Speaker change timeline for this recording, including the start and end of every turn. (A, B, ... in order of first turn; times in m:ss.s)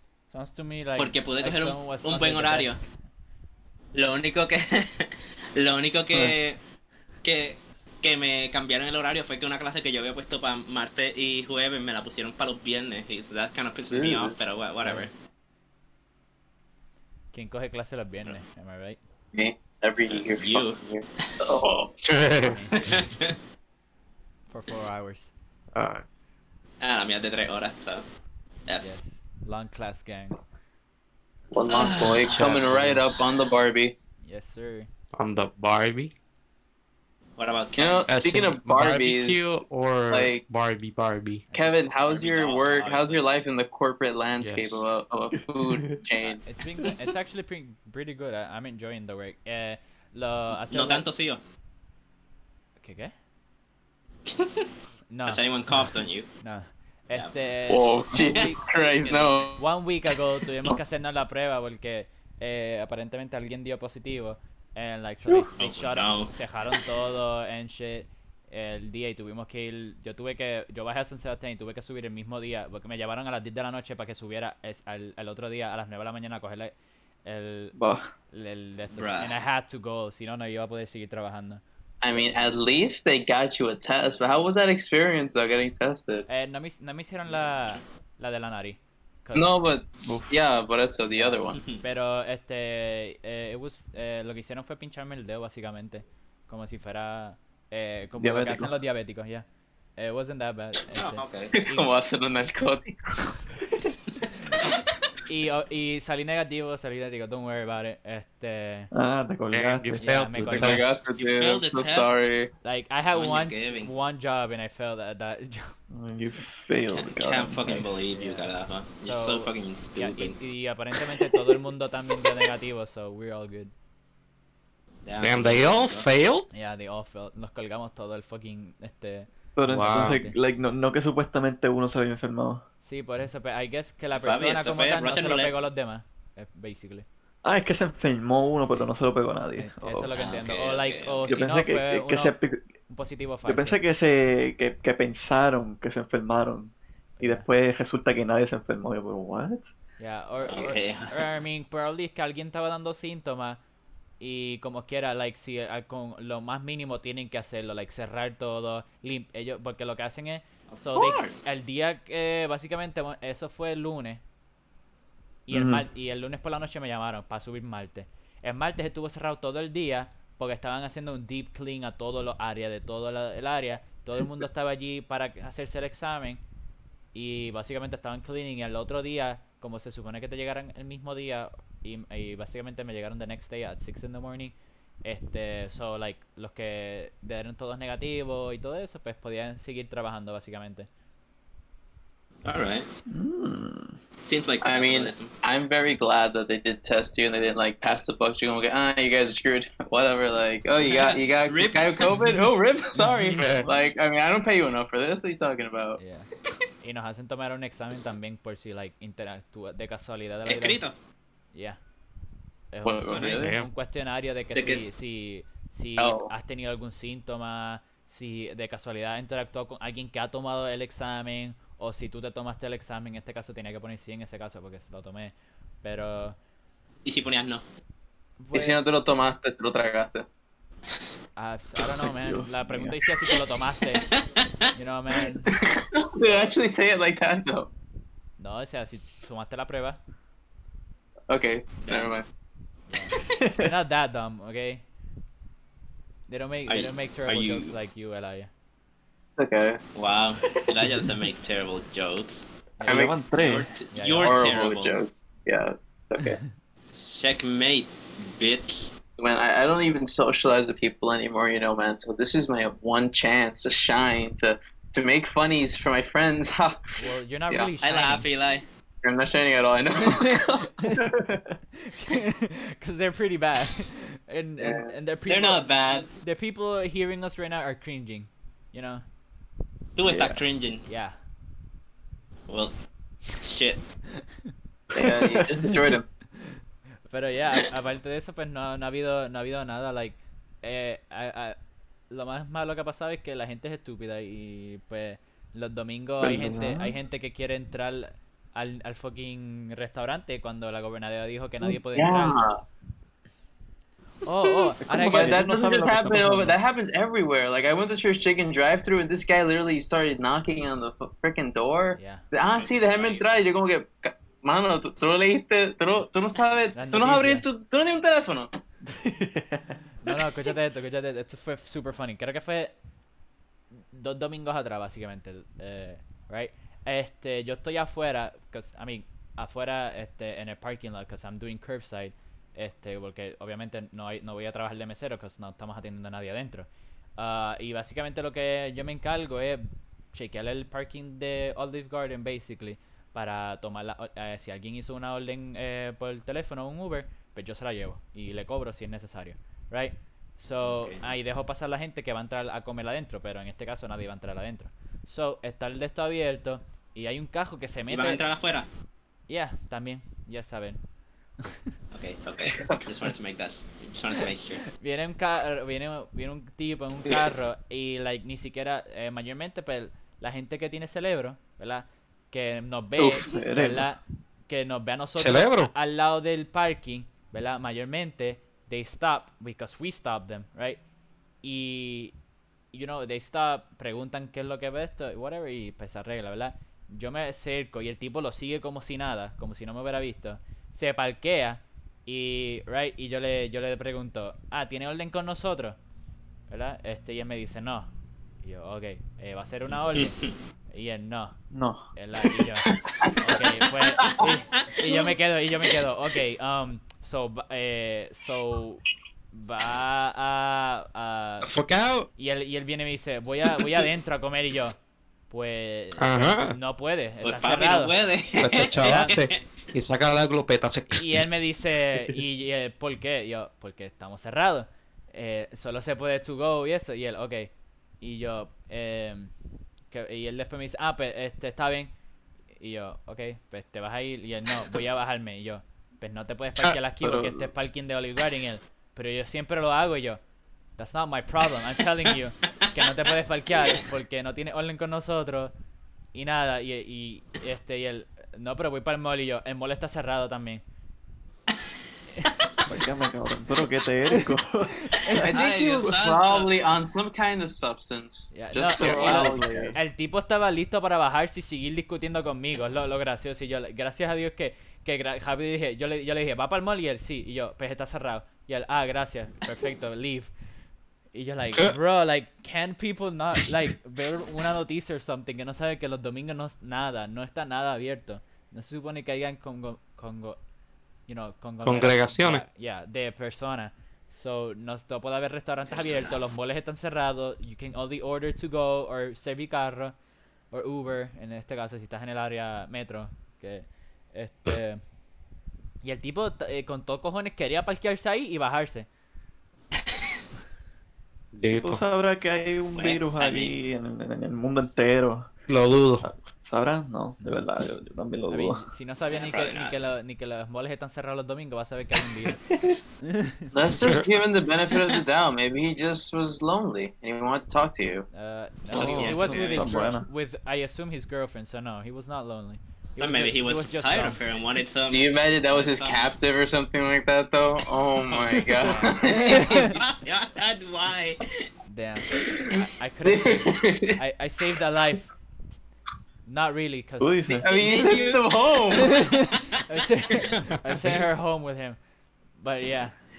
0:00.3-0:02.9 A
0:01.0-0:02.8 B
0:03.9-0:06.6 B
0:07.2-0:15.1 B
0:13.9-0:14.3 C
0:14.8-0:15.1 A
0:17.3-0:19.0 A
0:19.3-0:21.9 C
0:20.1-0:21.5 B
0:22.0-0:23.0 D
0:22.4-0:23.3 A
0:22.8-0:23.3 B
0:24.5-0:25.3 A
0:25.8-0:26.0 D
0:26.8-0:28.0 B
0:28.8-0:30.4 A
0:31.5-0:33.9 C
0:31.7-0:32.7 B
0:32.5-0:32.8 D
0:34.2-0:34.9 A
0:35.2-0:36.1 D
0:37.4-0:38.1 B
0:37.8-0:39.4 C
0:38.1-0:41.5 D
0:40.1-0:40.4 C
0:41.5-0:41.8 A
0:41.5-0:46.4 C
0:42.1-0:43.2 B
0:44.4-0:44.8 D
0:45.6-0:46.0 E
0:46.4-0:51.1 A
0:50.7-0:51.4 B
0:52.8-0:53.1 A
0:54.3-0:54.7 B
0:55.1-0:55.4 A
0:55.3-0:56.3 B
0:56.4-0:58.6 A
0:57.7-0:59.6 C
0:58.2-0:59.5 B
0:59.6-1:16.7 A
1:05.6-1:06.3 B
1:17.2-1:17.8 A
1:17.8-1:18.1 E
1:18.3-1:22.4 A
1:19.0-1:19.3 B
1:22.0-1:26.3 C
1:26.3-1:29.6 A
1:29.4-1:31.6 C
1:31.1-1:39.4 A
1:38.2-1:38.7 E
1:40.0-1:41.9 A
1:40.9-1:41.6 B
1:41.6-1:43.3 C
1:45.3-1:48.9 A
1:48.9-1:50.1 E
1:49.5-1:51.0 D
1:50.0-1:50.9 A
1:50.5-1:52.5 C
1:51.2-1:52.2 B
1:52.6-1:55.8 A
1:53.1-1:53.9 B
1:55.9-1:57.9 E
1:57.0-2:00.4 B
1:58.1-2:03.7 A
2:05.1-2:06.1 B
2:05.2-2:06.5 D
2:06.5-2:10.4 A
2:09.6-2:12.6 E
2:09.7-2:10.2 D
2:12.8-2:17.1 A
2:14.2-2:15.5 B
2:17.4-2:20.1 E
2:19.6-2:22.4 A
2:20.2-2:21.2 B
2:21.3-2:22.6 E
2:22.9-2:23.8 A
2:23.4-2:29.7 E
2:27.2-2:27.5 A
2:30.0-2:33.6 A
2:30.5-2:31.2 B
2:34.2-2:44.2 A
2:40.7-2:41.5 B
2:45.5-2:56.4 A
2:45.5-2:45.8 E
2:57.1-3:10.9 A
3:12.4-3:12.9 B
3:13.1-3:14.0 E
3:14.2-3:15.3 B
3:14.6-3:26.0 C
3:20.8-3:22.5 B
3:23.4-3:23.7 D
3:26.0-3:26.3 A
3:26.8-3:30.8 A
3:30.5-3:30.9 B
3:31.5-3:31.8 A
3:32.7-3:46.4 A
3:32.8-3:33.6 C
3:33.1-3:33.5 B
3:33.4-3:33.7 D
3:34.6-3:34.8 B
3:36.0-3:36.3 C
3:47.0-3:47.6 B
3:48.4-3:48.8 A
3:48.5-3:50.3 C
3:51.4-3:54.1 A
3:52.0-3:53.0 E
3:54.0-3:54.7 B
3:54.8-3:55.6 A
3:55.5-3:57.7 C
3:58.4-4:00.0 A
4:01.3-4:02.2 C
4:01.8-4:02.1 B
4:02.9-4:04.8 A
4:03.3-4:03.7 E
4:06.3-4:08.5 A
4:06.7-4:07.7 B
4:09.4-4:09.8 C
4:10.0-4:12.4 B
4:12.8-4:13.1 A
4:12.8-4:13.7 E
4:12.9-4:13.2 C
4:13.4-4:14.9 B
4:13.9-4:14.4 A
4:14.2-4:16.4 C
4:16.9-4:18.9 B
4:19.2-4:26.8 C
4:27.0-4:28.3 A
4:27.8-4:28.6 B
4:29.0-4:30.7 C
4:30.0-4:31.0 A
4:30.9-4:31.5 E
4:31.8-4:39.0 A
4:34.6-4:34.9 C
4:35.3-4:36.1 B
4:40.0-4:40.8 B
4:40.1-4:40.4 E
4:40.9-4:41.2 A
4:43.3-4:43.8 B
4:44.9-4:45.5 E
4:44.9-4:46.1 C
4:47.1-4:51.6 A
4:52.1-5:02.4 A
4:56.2-4:56.9 E
5:02.0-5:02.6 C
5:04.2-5:05.4 A
5:04.8-5:06.6 E
5:05.1-5:18.5 C
5:12.0-5:12.2 A
5:12.5-5:13.2 B
5:16.8-5:17.5 A
5:18.9-5:19.8 E
5:20.0-5:22.7 A
5:23.9-5:58.2 A
5:50.6-5:51.0 B
5:57.9-5:58.7 B
5:59.3-6:00.8 A
6:01.4-6:01.7 A
6:01.9-6:04.7 B
6:02.5-6:02.8 C
6:04.8-6:20.8 A
6:13.0-6:13.9 E
6:15.2-6:15.7 D
6:21.4-6:22.1 A
6:22.7-6:35.8 A
6:36.5-6:37.9 A
6:38.4-6:40.2 A
6:40.0-6:40.3 B
6:40.7-6:41.4 A
6:41.5-6:41.9 E
6:42.0-6:51.5 A
6:42.7-6:43.1 C
6:51.4-6:52.1 D
6:52.2-6:54.8 A
6:55.3-6:57.9 A
6:56.0-6:56.6 D
6:57.2-6:59.4 B
6:58.4-7:01.3 D
6:58.7-6:59.2 A
7:00.9-7:09.3 A
7:09.9-7:11.9 A
7:12.6-7:20.2 A
7:17.0-7:17.5 E
7:20.8-7:25.5 A
7:26.1-7:30.6 A
7:32.2-7:32.8 A
7:32.7-7:35.3 E
7:34.8-7:35.3 A
7:35.2-7:36.6 B
7:35.2-7:39.8 C
7:38.3-7:50.3 A
7:38.8-7:39.1 D
7:39.0-7:39.8 E
7:51.1-8:00.4 A
8:01.1-8:10.0 A
8:01.6-8:02.4 D
8:05.7-8:06.2 B
8:10.5-8:14.8 A
8:15.8-8:18.9 A
8:21.4-8:21.8 D
8:21.5-8:25.3 E
8:22.8-8:23.5 B
8:25.5-8:26.1 D
8:26.4-8:28.6 E
8:27.2-8:27.4 A
8:28.3-8:32.4 A
8:29.1-8:29.8 B
8:33.0-8:33.5 A
8:33.5-8:38.1 C
8:33.6-8:34.1 D
8:34.7-8:35.0 B
8:38.1-8:44.2 A
8:38.7-8:39.8 B
8:38.7-8:40.1 E
8:43.0-8:46.1 B
8:44.9-8:49.8 C
8:48.6-8:49.8 A
8:49.4-8:51.5 B
8:51.7-8:55.1 A
8:52.1-8:54.0 C
8:56.3-8:57.5 A
8:57.0-8:57.5 E
8:57.4-8:59.0 C
8:57.5-8:59.4 B
8:58.7-9:01.8 A
9:00.4-9:00.9 D
9:02.4-9:03.0 A